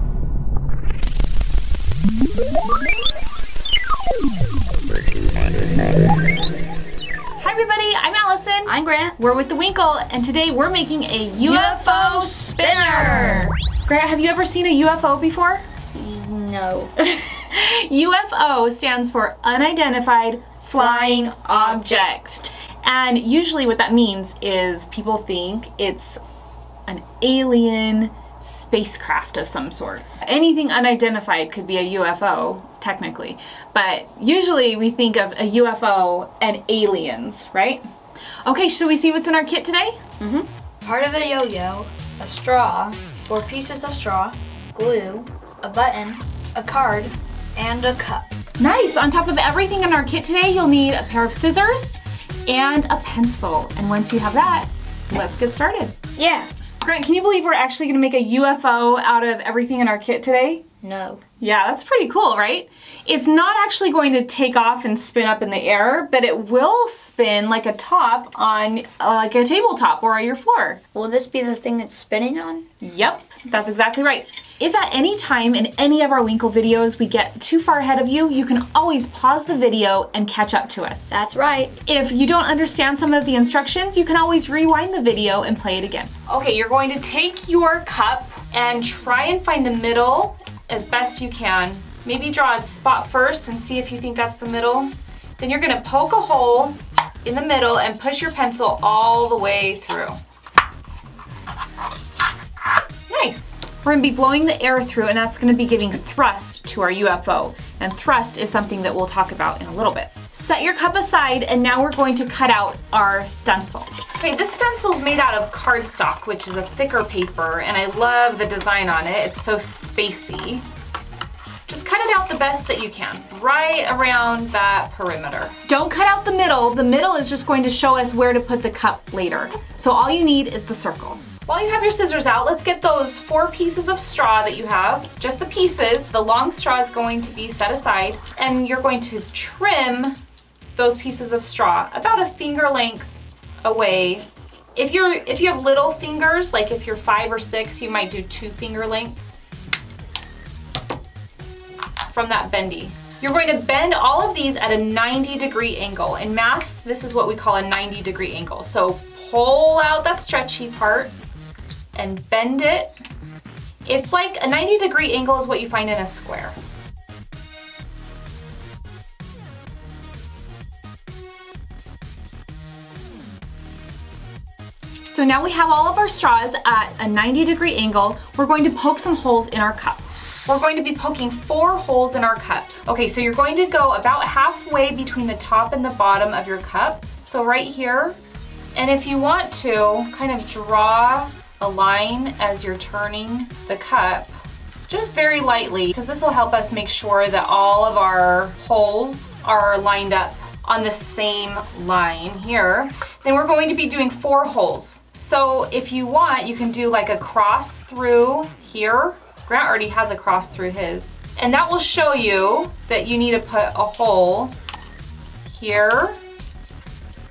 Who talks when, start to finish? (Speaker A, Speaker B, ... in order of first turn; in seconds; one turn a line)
Speaker A: 7.4-15.6
Speaker B: 8.7-9.2
Speaker B: 11.4-13.5
Speaker B: 15.9-16.9
Speaker A: 17.0-26.2
Speaker B: 20.8-22.1
Speaker A: 26.9-37.8
Speaker A: 38.5-40.0
Speaker B: 40.2-48.3
Speaker A: 48.6-56.0
Speaker B: 56.2-56.5
Speaker A: 56.8-60.6
Speaker B: 60.8-61.2
Speaker A: 61.4-70.8
Speaker B: 70.9-72.6
Speaker A: 72.8-81.1
Speaker B: 81.1-81.7
Speaker A: 81.8-100.2
Speaker A: 103.1-120.6
Speaker A: 121.7-140.2
Speaker A: 140.7-149.4
Speaker A: 152.1-161.1
Speaker A: 161.9-162.9
Speaker A: 163.8-166.6
Speaker A: 175.1-188.2
Speaker A: 188.8-194.3
Speaker A: 194.9-214.5
Speaker A: 215.4-216.2